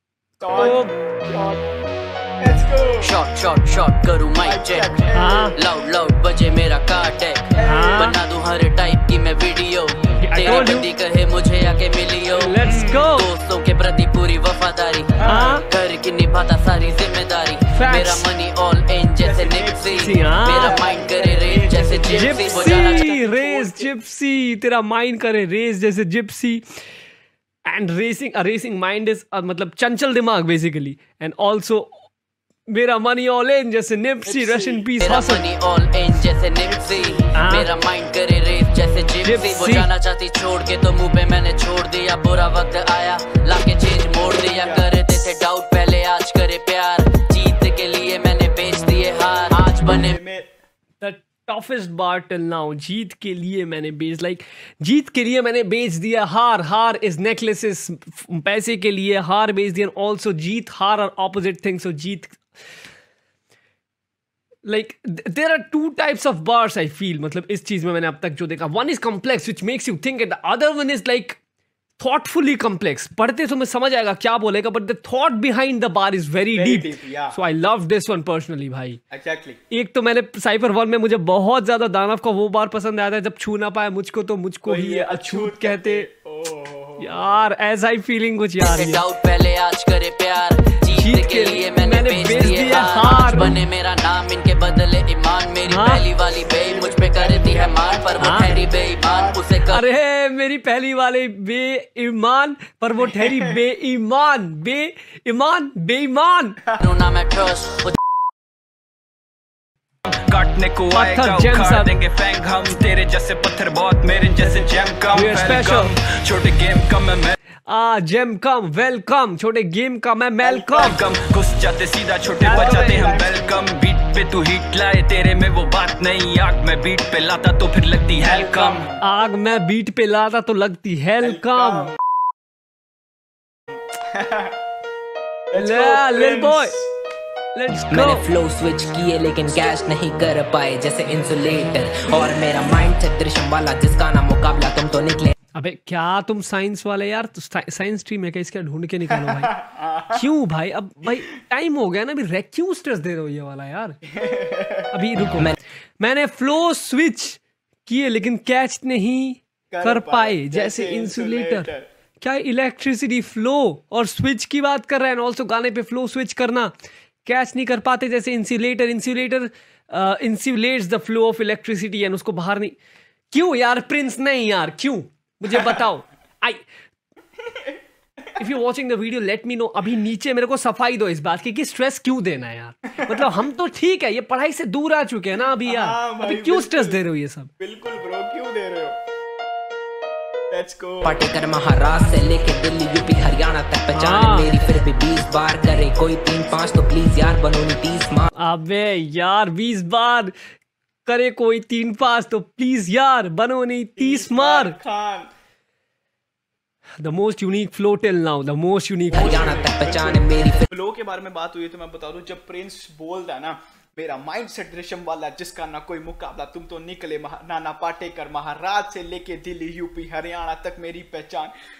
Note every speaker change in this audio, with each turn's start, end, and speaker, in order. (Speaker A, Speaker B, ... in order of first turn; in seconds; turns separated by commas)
Speaker A: 0.4-1.7, Speaker B: 0.5-0.9, Speaker A: 2.4-3.1, Speaker C: 3.0-23.2, Speaker A: 4.4-5.5, Speaker B: 5.1-5.6, Speaker A: 7.6-8.1, Speaker B: 7.6-8.1, Speaker B: 10.2-10.9, Speaker B: 12.3-13.3, Speaker A: 12.6-13.0, Speaker A: 15.2-15.6, Speaker B: 15.3-15.6, Speaker B: 17.7-18.3, Speaker A: 19.2-23.9, Speaker B: 19.9-20.8, Speaker B: 22.1-26.6, Speaker B: 27.7-32.1, Speaker B: 32.7-35.4, Speaker A: 34.3-34.9, Speaker C: 35.0-50.2, Speaker A: 36.6-37.4, Speaker B: 37.4-37.7, Speaker B: 39.2-39.9, Speaker A: 44.2-44.9, Speaker A: 49.8-50.5, Speaker B: 51.0-62.4, Speaker B: 64.7-71.4, Speaker B: 72.0-79.0, Speaker A: 76.5-77.4, Speaker A: 79.1-79.6, Speaker B: 79.7-86.1, Speaker A: 84.7-87.4, Speaker B: 87.0-89.0, Speaker C: 88.6-99.8, Speaker B: 90.9-93.5, Speaker B: 95.7-96.0, Speaker A: 96.4-99.4, Speaker B: 98.2-98.5, Speaker B: 99.7-106.6, Speaker A: 103.0-103.6, Speaker C: 106.8-108.0, Speaker D: 110.3-117.3, Speaker B: 110.9-111.9, Speaker A: 114.2-115.2, Speaker B: 115.1-115.9, Speaker B: 117.7-121.0, Speaker A: 120.4-121.0, Speaker D: 120.8-128.9, Speaker A: 122.4-123.6, Speaker B: 122.4-123.1, Speaker A: 128.2-129.0, Speaker B: 129.0-131.9, Speaker A: 131.2-132.0, Speaker A: 133.8-134.6, Speaker A: 135.5-136.9, Speaker B: 135.6-136.8, Speaker B: 137.5-138.3, Speaker E: 137.9-145.3, Speaker A: 139.5-139.8, Speaker B: 145.6-149.5, Speaker A: 149.2-150.3, Speaker B: 150.1-154.0, Speaker A: 154.1-154.9, Speaker B: 154.9-161.7, Speaker A: 159.7-161.9, Speaker B: 162.2-166.7, Speaker B: 167.2-172.8, Speaker B: 173.3-176.6, Speaker A: 177.4-178.3, Speaker B: 178.4-187.5, Speaker A: 185.7-187.0, Speaker A: 187.6-189.0, Speaker A: 190.5-191.2, Speaker E: 191.0-198.3, Speaker B: 193.9-194.5, Speaker B: 198.4-200.3, Speaker B: 201.1-204.8, Speaker A: 204.0-205.3, Speaker B: 207.0-209.6, Speaker E: 209.1-210.7, Speaker A: 209.1-221.5